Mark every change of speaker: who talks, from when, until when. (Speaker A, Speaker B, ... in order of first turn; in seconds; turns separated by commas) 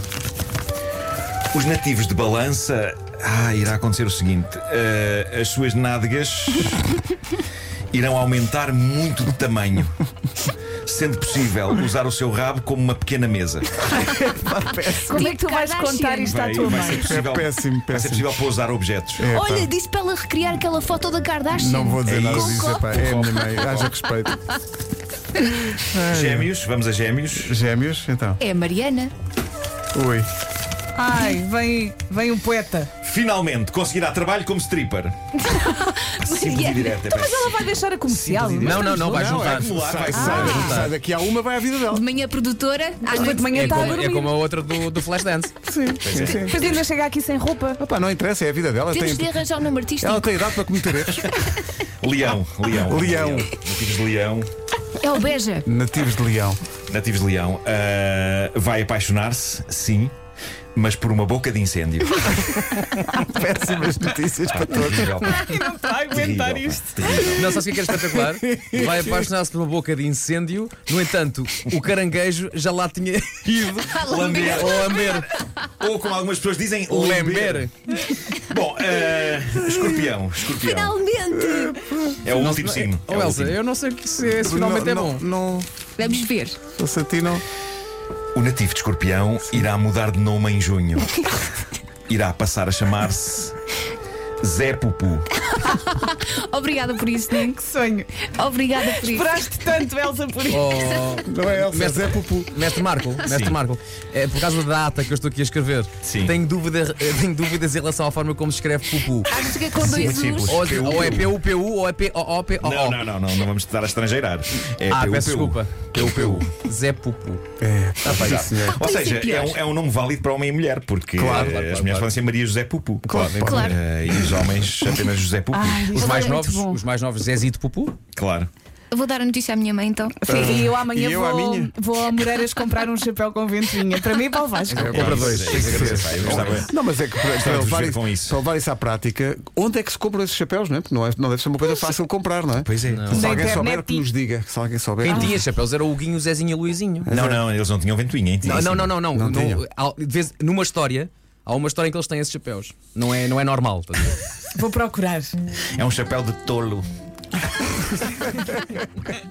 Speaker A: 1.5-6.8, Speaker A: 7.9-9.9, Speaker A: 10.8-13.7, Speaker B: 13.9-15.3, Speaker C: 14.8-16.9, Speaker D: 15.2-17.1, Speaker A: 16.2-19.2, Speaker B: 17.0-18.4, Speaker B: 19.2-19.7, Speaker C: 19.2-22.9, Speaker B: 21.5-24.4, Speaker A: 22.0-23.9, Speaker C: 23.5-23.9, Speaker B: 25.7-26.5, Speaker A: 26.1-27.6, Speaker B: 27.3-28.4, Speaker C: 28.4-29.1, Speaker B: 29.9-30.3, Speaker D: 30.9-32.9, Speaker A: 33.0-35.1, Speaker C: 35.4-37.4, Speaker A: 36.2-37.5, Speaker D: 37.1-39.3, Speaker B: 38.1-42.0, Speaker E: 38.6-40.9, Speaker C: 38.7-39.1, Speaker A: 39.3-40.9, Speaker D: 40.1-40.5, Speaker C: 40.3-40.8, Speaker C: 41.9-44.1, Speaker D: 43.0-44.4, Speaker E: 43.4-45.5, Speaker B: 45.6-46.6, Speaker A: 46.0-46.8, Speaker C: 46.4-46.8, Speaker D: 46.5-47.8, Speaker B: 47.8-49.4, Speaker C: 48.9-50.4, Speaker B: 50.0-51.3, Speaker A: 51.1-51.5, Speaker A: 52.0-54.5, Speaker B: 52.8-53.5, Speaker C: 55.0-55.6, Speaker B: 55.6-56.6, Speaker A: 56.9-60.1, Speaker A: 60.7-62.8, Speaker B: 63.0-65.5, Speaker A: 64.5-67.8, Speaker D: 65.4-67.3, Speaker E: 67.3-75.3, Speaker B: 67.9-69.1, Speaker C: 73.8-75.5, Speaker A: 74.0-77.7, Speaker E: 76.9-77.7, Speaker A: 78.3-81.0, Speaker C: 80.4-82.0, Speaker B: 81.3-82.2, Speaker A: 82.2-83.6, Speaker E: 82.3-85.2, Speaker B: 84.2-85.7, Speaker C: 86.0-86.6, Speaker B: 86.7-87.4, Speaker A: 88.3-91.1, Speaker A: 92.1-93.5, Speaker A: 94.4-95.3, Speaker C: 95.4-97.6, Speaker D: 97.5-98.2, Speaker C: 98.2-99.5, Speaker D: 98.8-100.8, Speaker E: 100.5-109.3, Speaker C: 100.7-101.3, Speaker B: 101.2-102.6, Speaker A: 103.2-103.6, Speaker A: 106.0-106.4, Speaker C: 109.2-110.8, Speaker A: 109.7-111.4, Speaker E: 109.9-113.0, Speaker A: 112.6-116.5, Speaker E: 114.9-117.4, Speaker B: 117.6-118.9, Speaker A: 118.0-126.2, Speaker C: 118.6-119.6, Speaker B: 121.2-121.6, Speaker E: 121.2-122.1, Speaker E: 123.0-123.6, Speaker B: 123.0-123.8, Speaker C: 123.4-123.8, Speaker D: 125.5-126.8, Speaker C: 125.9-126.4, Speaker E: 125.9-128.0, Speaker A: 128.1-128.5, Speaker C: 128.9-130.2, Speaker D: 130.2-135.1, Speaker B: 130.2-131.7, Speaker B: 134.7-145.4, Speaker E: 134.8-136.7, Speaker A: 134.9-136.7, Speaker A: 137.3-138.4, Speaker A: 142.6-143.2, Speaker E: 142.9-143.6, Speaker D: 143.1-144.1, Speaker E: 145.0-147.1, Speaker D: 145.1-145.4, Speaker B: 147.0-147.4, Speaker A: 147.1-149.0, Speaker E: 148.4-154.3, Speaker B: 149.0-149.6, Speaker D: 154.5-155.3, Speaker A: 155.8-156.9